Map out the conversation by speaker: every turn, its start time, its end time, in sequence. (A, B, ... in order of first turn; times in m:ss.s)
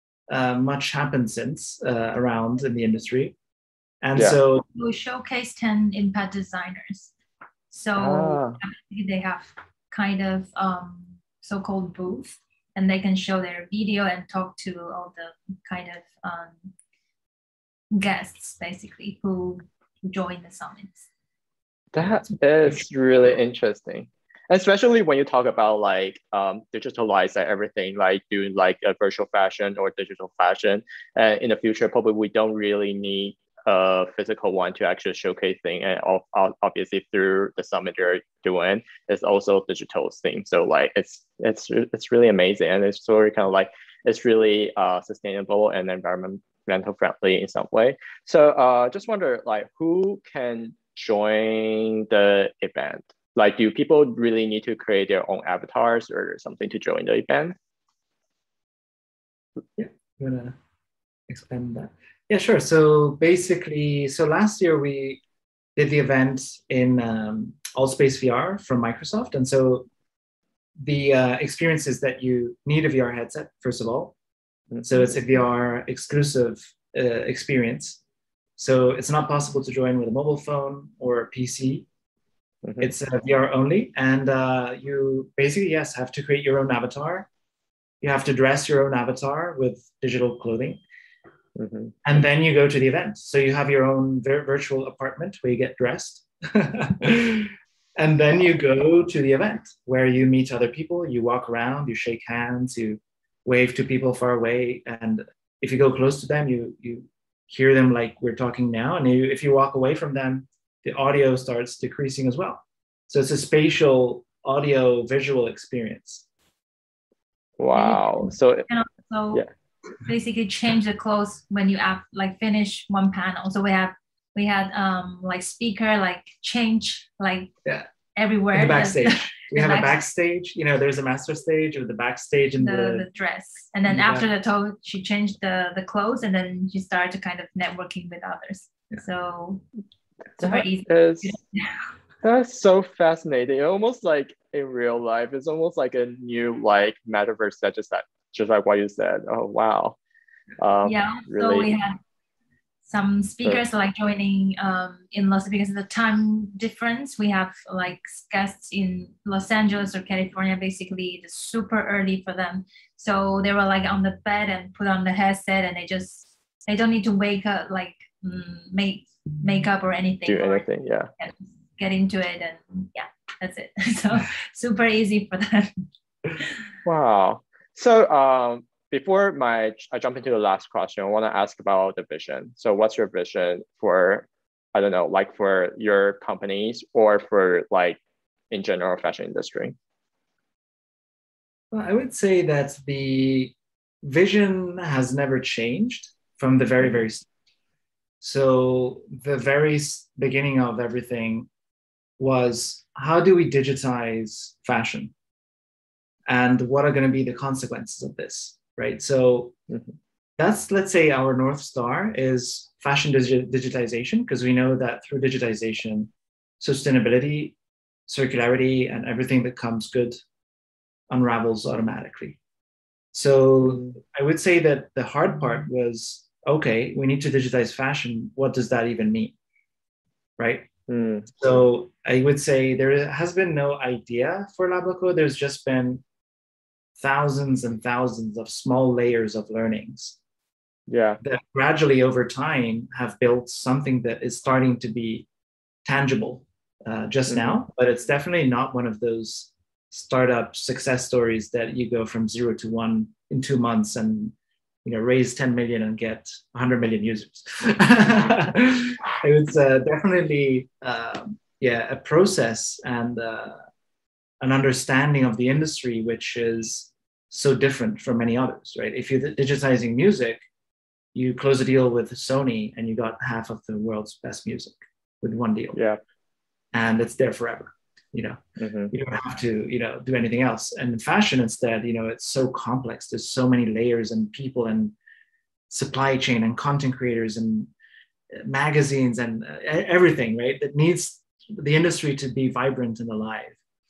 0:00.3-0:03.3 A
0:04.0-0:04.6 A
0:04.7-0:07.1 B
0:07.7-0:16.7 B
0:08.0-0:08.6 C
0:17.9-0:21.1 B
0:21.9-0:57.6 C
0:22.0-0:22.8 A
0:59.8-1:00.5 A
1:01.3-1:05.2 A
1:05.8-1:09.9 A
1:10.8-1:14.1 A
1:14.7-1:15.1 C
1:14.8-1:18.0 A
1:18.6-1:21.8 A
1:22.6-1:22.9 C
1:22.8-1:27.3 A
1:28.0-1:30.8 A
1:31.6-1:31.9 C
1:32.0-1:56.2 A
1:57.6-1:58.7 C
1:57.7-1:59.4 B
2:00.0-2:07.5 B
2:08.1-2:10.0 B
2:08.5-2:13.0 A
2:12.6-2:19.6 B
2:13.8-2:14.3 A
2:20.4-2:21.8 B
2:20.4-2:21.3 C
2:22.2-2:30.0 C
2:30.6-2:31.7 C
2:30.8-2:32.0 B
2:32.8-2:55.7 B
2:50.3-2:51.1 C
2:56.8-3:08.0 C
3:08.5-3:09.7 C
3:11.7-3:17.3 A
3:18.2-3:21.5 A
3:22.2-3:25.1 A
3:26.3-3:29.5 A
3:30.4-3:37.6 A
3:38.1-3:40.2 A
3:41.1-3:42.4 A
3:43.1-3:49.3 A
3:43.6-3:43.9 C
3:50.4-3:50.7 A
3:50.9-3:51.3 C
3:51.3-3:56.0 A
3:57.0-4:00.2 A
4:00.9-4:01.2 C
4:01.2-4:05.3 A
4:05.8-4:23.6 A
4:07.3-4:07.6 C
4:24.4-4:30.4 A
4:31.1-4:35.8 A
4:35.7-4:36.0 C
4:36.7-4:38.4 A
4:38.6-4:38.9 C
4:38.9-4:44.9 A
4:45.7-4:47.7 A
4:48.3-4:53.6 A